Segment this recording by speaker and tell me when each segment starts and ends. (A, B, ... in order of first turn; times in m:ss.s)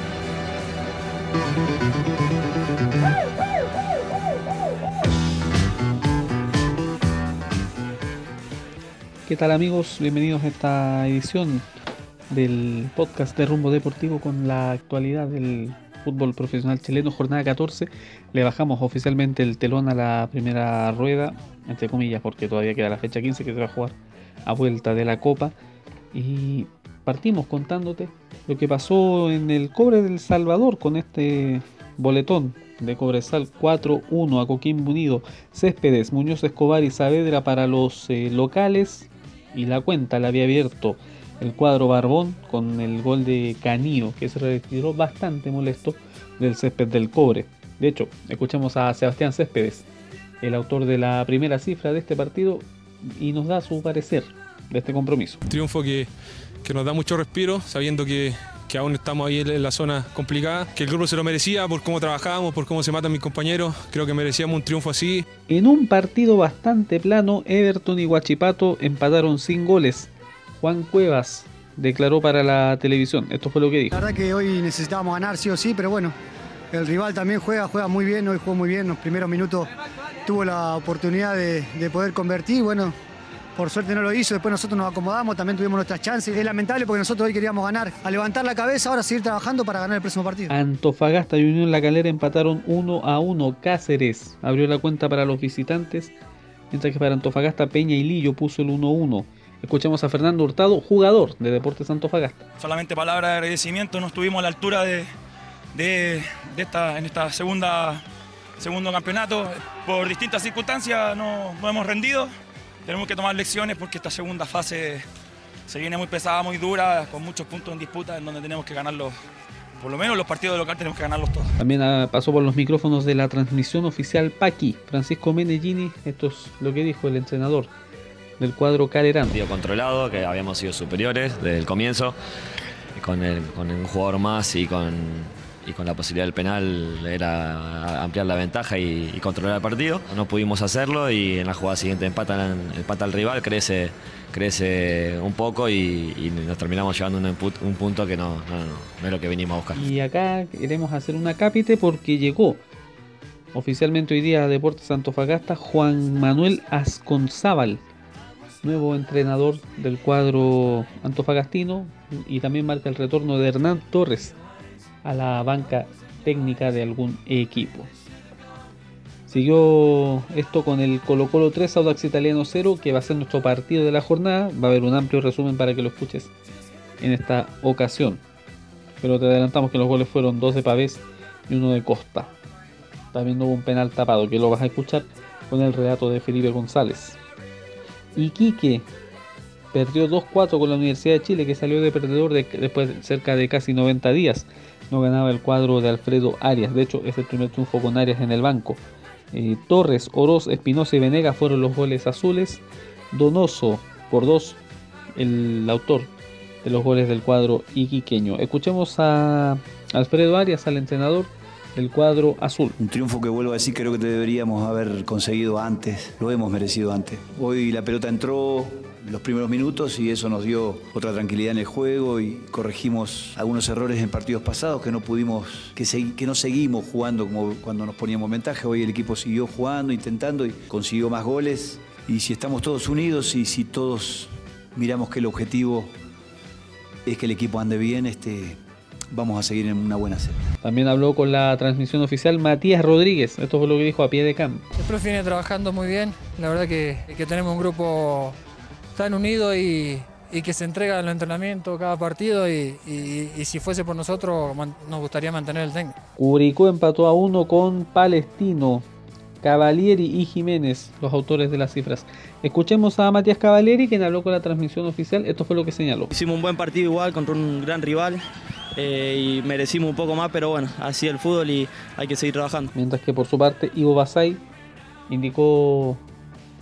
0:09.3-0:11.6 A
0:12.3-0:23.9 A
0:24.4-0:25.5 A
0:26.1-0:49.8 A
0:50.4-0:55.4 A
0:55.5-0:56.1 B
0:56.6-1:05.2 B
1:05.5-1:14.0 A
1:13.9-1:16.1 C
1:16.7-1:19.7 C
1:20.2-1:22.9 C
1:23.6-1:30.5 C
1:30.5-1:36.1 A
1:36.7-1:42.4 A
1:42.6-1:45.1 D
1:45.7-1:48.0 D
1:48.6-1:52.3 D
1:52.8-1:55.0 D
1:55.7-1:59.1 D
1:59.8-2:01.5 D
2:01.6-2:07.7 A
2:08.4-2:09.4 A
2:09.3-2:12.1 E
2:13.0-2:29.9 E
2:29.7-2:32.6 A
2:33.5-2:37.8 A
2:38.6-2:44.4 A
2:45.0-2:47.9 A
2:49.3-2:56.3 A
2:57.0-2:58.2 A
2:59.0-3:02.3 A
3:03.1-3:07.2 A
3:08.1-3:08.9 A
3:09.7-3:18.8 A
3:19.3-3:24.6 A
3:25.2-3:26.1 A
3:26.6-3:32.8 A
3:32.8-3:55.9 F
3:57.0-3:58.6 F
3:59.1-4:00.4 F
4:00.6-4:04.6 A
4:04.8-4:08.4 G
4:09.0-4:16.0 G
4:16.2-4:18.8 A
4:19.4-4:26.1 A
4:26.1-4:28.2 H
4:28.8-4:32.7 H
4:32.7-4:34.4 A
4:35.1-4:36.0 A